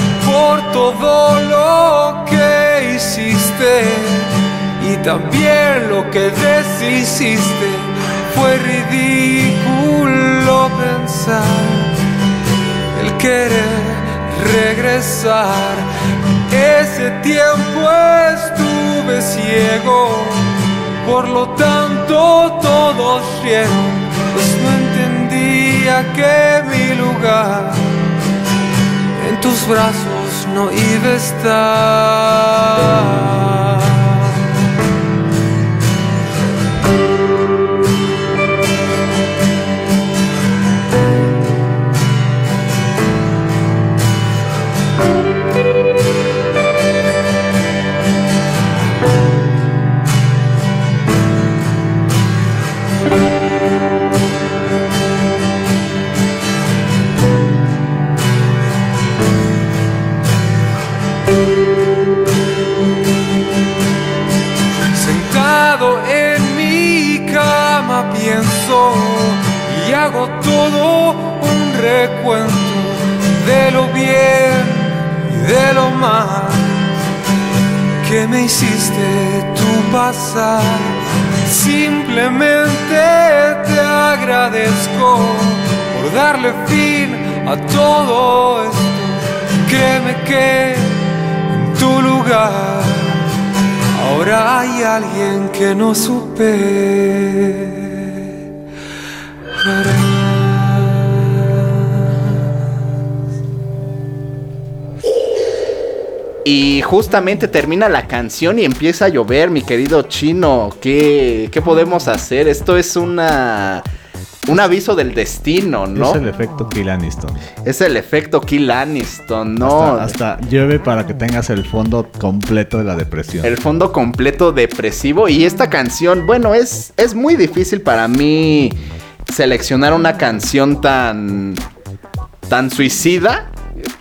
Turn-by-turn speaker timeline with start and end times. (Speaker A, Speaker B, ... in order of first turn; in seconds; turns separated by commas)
Speaker A: 0.2-11.9, Speaker A: 12.9-15.9, Speaker A: 16.5-20.4, Speaker A: 21.0-28.0, Speaker A: 29.2-34.0, Speaker A: 64.9-76.9, Speaker A: 78.0-91.0, Speaker A: 91.5-93.2, Speaker A: 94.0-97.9, Speaker B: 106.5-113.9, Speaker B: 114.5-116.2, Speaker C: 116.0-117.4, Speaker B: 117.6-120.2, Speaker C: 119.6-123.5, Speaker B: 123.4-131.6, Speaker B: 132.5-133.5